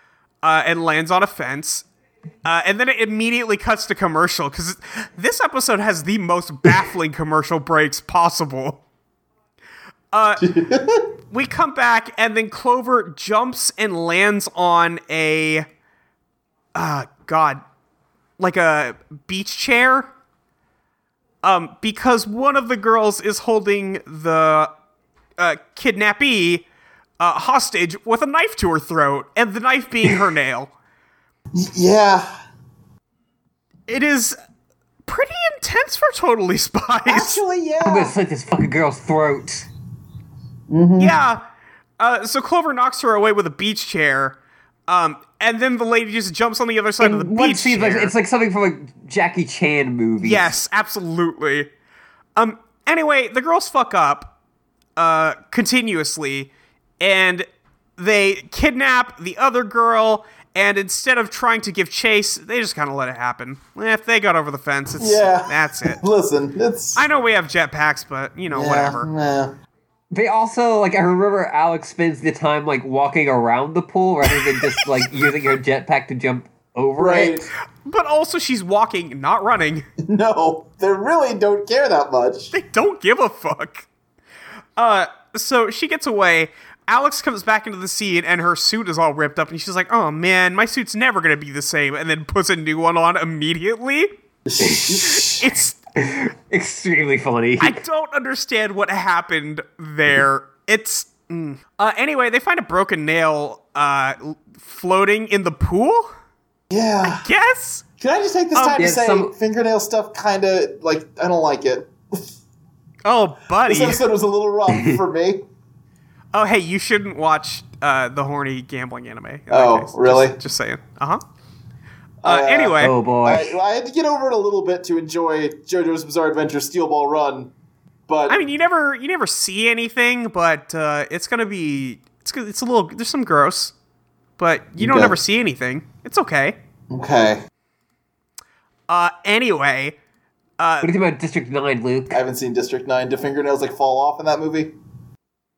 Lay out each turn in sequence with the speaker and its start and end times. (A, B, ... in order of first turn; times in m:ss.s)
0:00.4-0:01.8 A
0:02.4-0:08.8 A
0:10.1-0:10.5 A
0:10.4-0:11.1 B
0:11.3-0:15.7 A
0:16.8-0:17.6 A
0:18.4-0:20.1 A
0:21.4-0:24.7 A
0:25.4-0:26.6 A
0:27.2-0:30.7 A
0:31.5-0:32.3 B
0:33.9-0:34.4 A
0:35.1-0:37.4 A
0:37.1-0:38.2 B
0:37.8-0:39.7 C
0:40.7-0:41.2 B
0:41.0-0:41.4 A
0:42.0-0:48.1 A
0:47.0-0:50.5 C
0:50.2-0:51.7 A
0:52.4-0:54.3 A
0:55.0-1:06.0 A
1:05.0-1:07.0 B
1:07.0-1:09.1 A
1:08.5-1:09.6 B
1:10.1-1:17.5 C
1:14.4-1:15.0 A
1:17.0-1:17.5 B
1:17.8-1:19.8 A
1:20.0-1:22.5 B
1:22.5-1:23.9 A
1:24.8-1:34.1 A
1:34.5-1:35.6 B
1:34.6-1:35.0 C
1:34.9-1:35.8 A
1:36.0-1:37.8 C
1:37.6-1:46.1 A
1:46.7-1:47.2 B
1:47.1-1:47.8 A
1:48.0-1:52.2 B
1:48.6-1:48.8 A
1:48.8-1:49.3 C
1:53.0-1:54.0 A
1:53.7-1:55.4 B
1:54.7-1:55.0 C
1:56.3-2:01.2 A
1:59.5-2:00.4 B
2:02.2-2:07.5 B
2:02.2-2:03.0 A
2:02.8-2:03.5 C
2:08.1-2:08.4 B
2:08.3-2:13.7 A
2:14.4-2:16.6 A
2:14.8-2:15.2 B
2:16.9-2:17.4 B
2:18.9-2:20.0 A
2:20.6-2:20.9 A
2:20.8-2:22.2 C
2:22.1-2:24.8 B